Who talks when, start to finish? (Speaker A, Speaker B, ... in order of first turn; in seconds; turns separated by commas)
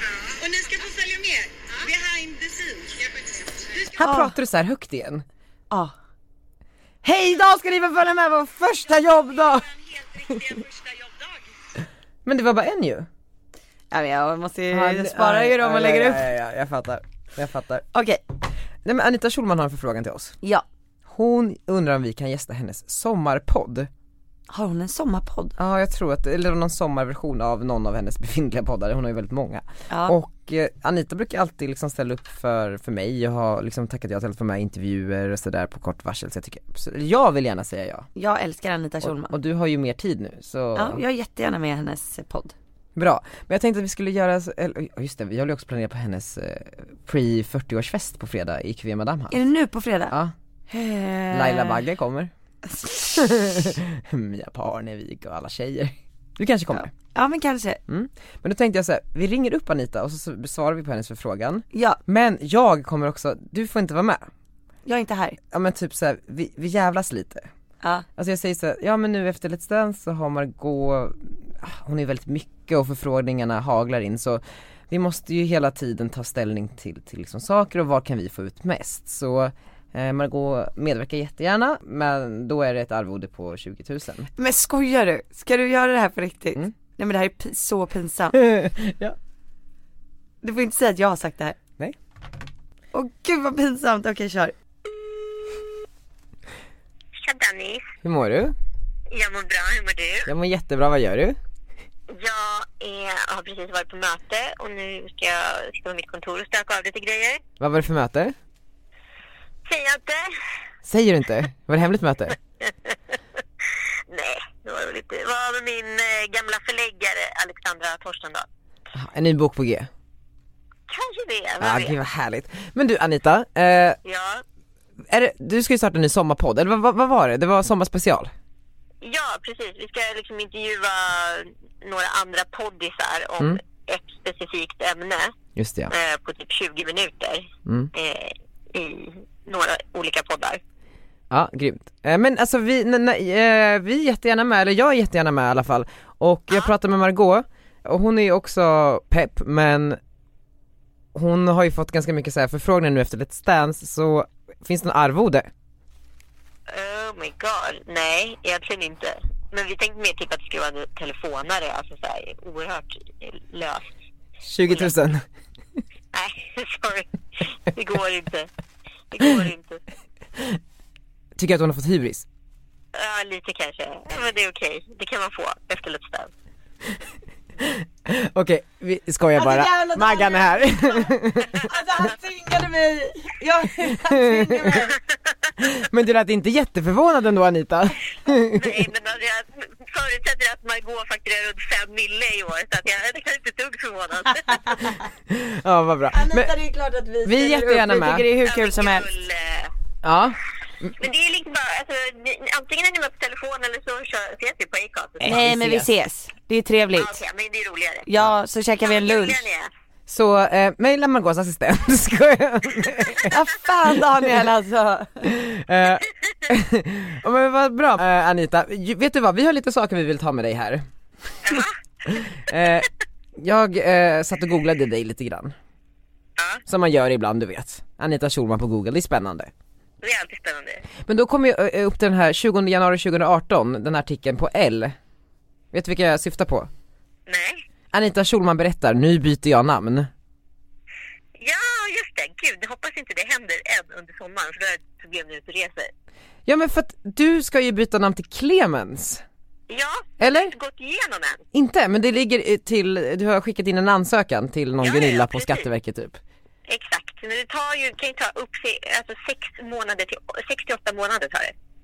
Speaker A: 0.4-3.0, Speaker A: 3.8-4.3, Speaker B: 4.0-5.2, Speaker B: 7.0-10.6, Speaker B: 12.2-13.1, Speaker A: 13.9-16.3, Speaker B: 14.7-17.9, Speaker A: 17.9-18.2, Speaker B: 18.9-20.4, Speaker B: 21.1-23.9, Speaker A: 24.5-25.6, Speaker B: 25.6-38.1, Speaker A: 29.9-30.2, Speaker A: 38.1-39.4, Speaker B: 39.0-41.0, Speaker A: 40.8-42.5, Speaker B: 43.0-49.4, Speaker A: 49.3-50.1, Speaker A: 50.7-51.8, Speaker B: 51.3-52.3, Speaker A: 52.7-53.7, Speaker B: 53.2-56.9, Speaker A: 56.7-57.8, Speaker B: 57.9-64.3, Speaker A: 61.7-62.0, Speaker A: 64.9-65.4, Speaker B: 65.5-67.5, Speaker B: 68.2-84.3, Speaker A: 84.4-88.3, Speaker B: 88.3-89.2, Speaker A: 90.4-91.6, Speaker A: 92.9-94.5, Speaker C: 97.2-97.9, Speaker B: 98.0-98.5, Speaker C: 99.1-100.3, Speaker B: 100.3-101.4, Speaker C: 102.1-107.4, Speaker B: 107.6-108.3, Speaker C: 109.7-110.3, Speaker B: 110.9-112.4, Speaker C: 114.1-118.5, Speaker B: 118.9-119.9, Speaker C: 120.9-122.0, Speaker B: 121.6-124.0, Speaker C: 124.0-124.4, Speaker B: 125.1-128.3, Speaker C: 129.0-135.3, Speaker B: 135.6-135.9, Speaker C: 135.9-140.6, Speaker B: 137.7-137.9, Speaker B: 141.3-150.0, Speaker B: 151.1-155.5, Speaker C: 156.7-163.9, Speaker B: 164.4-165.2, Speaker C: 166.1-168.5, Speaker C: 169.1-169.8, Speaker B: 171.4-172.3, Speaker C: 172.9-176.3, Speaker B: 177.6-181.7, Speaker A: 179.4-185.0, Speaker B: 183.8-184.9, Speaker B: 185.6-188.8, Speaker C: 188.5-194.7, Speaker A: 194.5-195.0, Speaker B: 195.3-196.5, Speaker A: 196.1-199.1, Speaker B: 197.2-198.3, Speaker C: 198.4-199.7, Speaker B: 200.0-200.9, Speaker C: 201.0-205.4, Speaker B: 205.2-205.9, Speaker A: 205.2-207.2, Speaker C: 206.9-208.1, Speaker A: 208.1-209.5, Speaker C: 208.8-209.7, Speaker B: 210.1-213.3, Speaker A: 213.3-215.3, Speaker B: 215.2-220.8, Speaker C: 221.4-221.7, Speaker B: 221.5-225.6, Speaker C: 226.4-226.6, Speaker B: 226.7-229.5, Speaker C: 230.0-230.8, Speaker B: 231.1-235.0, Speaker B: 235.7-236.7, Speaker C: 237.3-237.6, Speaker B: 237.9-240.1, Speaker C: 241.4-245.9, Speaker B: 246.5-249.2, Speaker C: 249.7-251.4, Speaker B: 250.2-250.5, Speaker B: 251.5-256.2, Speaker C: 254.8-255.7, Speaker C: 256.7-261.5